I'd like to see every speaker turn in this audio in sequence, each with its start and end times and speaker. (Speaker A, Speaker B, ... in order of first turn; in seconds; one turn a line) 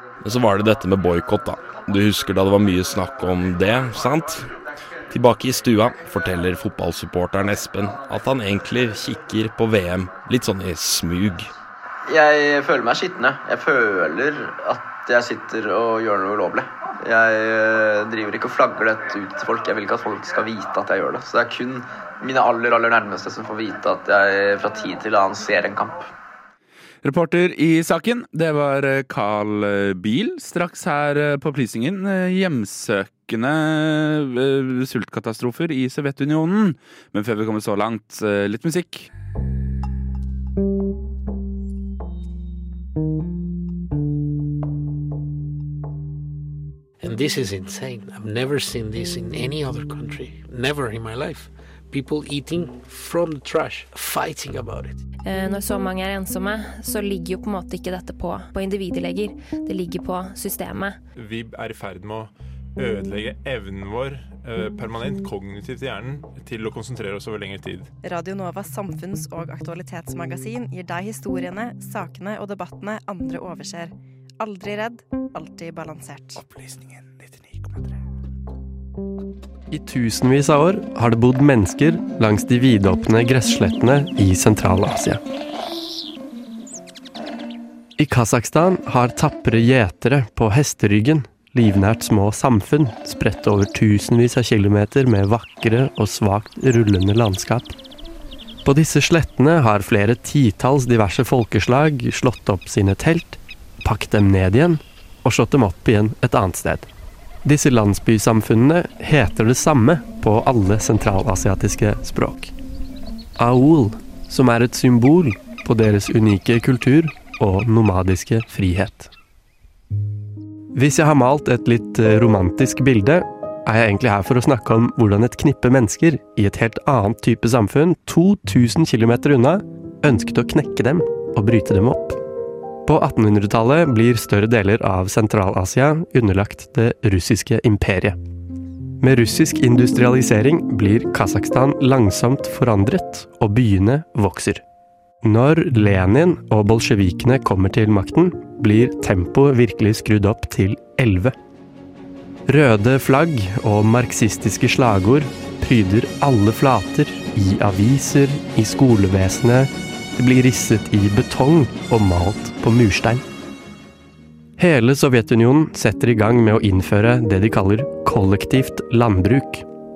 Speaker A: 0.2-4.5
Speaker A: 5.1-11.5
Speaker B: 12.1-26.1
Speaker C: 27.0-39.1
Speaker D: 47.0-55.0
Speaker E: 55.2-61.0
Speaker F: 61.1-67.9
Speaker G: 68.0-76.4
Speaker H: 79.7-85.2
Speaker H: 88.0-97.8
Speaker H: 98.6-106.9
Speaker H: 107.4-112.5
Speaker H: 113.4-119.1
Speaker H: 120.7-132.2
Speaker H: 132.8-138.2
Speaker H: 139.0-144.6
Speaker H: 145.2-151.3
Speaker H: 152.5-163.2
Speaker H: 164.6-169.7